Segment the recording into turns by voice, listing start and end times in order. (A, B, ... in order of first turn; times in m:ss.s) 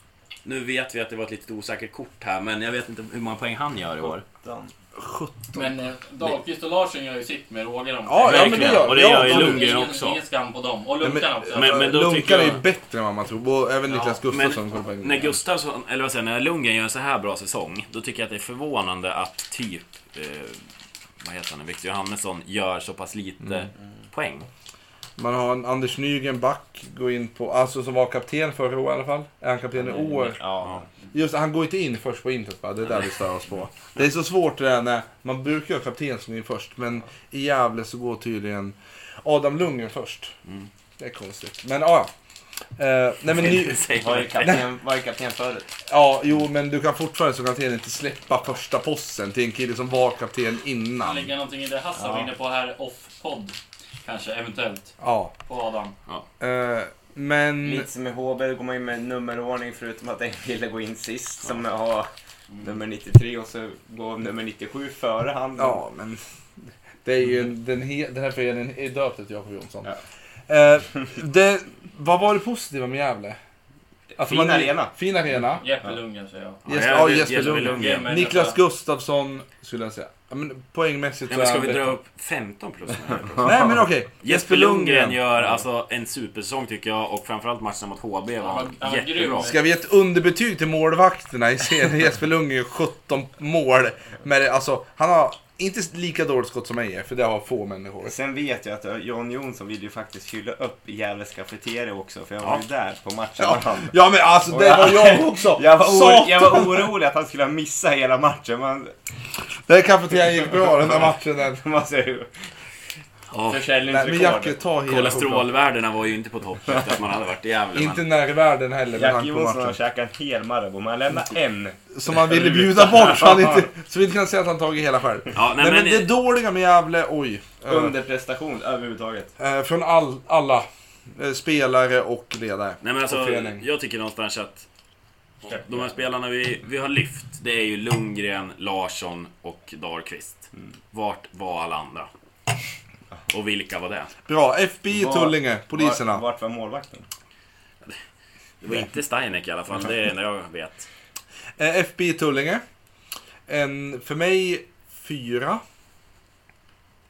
0:00.4-0:04.2 A
0:04.4-0:04.7 B
0:05.0-0:05.7 C
0:05.5-0:11.9 D
0:08.1-0:09.8 C
0:08.2-0:10.2 A
0:11.0-0:15.4 C
0:11.5-0:12.6 A
0:13.9-0:14.2 D
0:14.3-0:20.6 A
0:21.2-0:24.5 A
0:25.2-0:30.4 C
0:29.7-0:31.0 B
0:31.1-0:40.3 C
0:41.0-0:42.1 C
0:42.8-0:43.9 C
0:43.3-0:44.7 A
0:43.9-0:45.7 B
0:45.9-0:51.3 C
0:51.0-0:55.0 D
0:52.0-0:52.3 B
0:55.0-0:55.3 C
0:55.5-0:56.0 D
0:56.4-0:57.9 C
0:57.6-1:05.8 B
1:05.6-1:06.2 C
1:07.0-1:09.9 C
1:10.5-1:13.4 C
1:14.2-1:15.0 B
1:14.2-1:15.6 C
1:15.6-1:18.6 D
1:16.7-1:18.1 A
1:16.7-1:21.9 C
1:21.3-1:29.5 A
1:23.4-1:23.7 B
1:23.4-1:25.2 C
1:28.4-1:29.6 D
1:29.4-1:38.1 C
1:38.0-1:48.9 B
1:43.4-1:46.9 C
1:49.7-1:51.6 C
1:50.6-1:52.5 B
1:53.3-1:53.8 A
1:53.5-1:54.6 B
1:53.8-1:55.5 C
1:54.9-1:58.0 A
1:57.8-1:59.8 C
1:58.9-2:03.7 B
2:01.9-2:08.0 C
2:05.3-2:06.1 A
2:07.6-2:09.3 B
2:09.4-2:13.7 C
2:12.8-2:14.7 A
2:15.4-2:22.1 A
2:23.3-2:24.1 A
2:24.3-2:26.2 C
2:24.9-2:27.1 B
2:28.6-2:30.9 A
2:31.6-2:32.6 C
2:33.5-2:35.6 C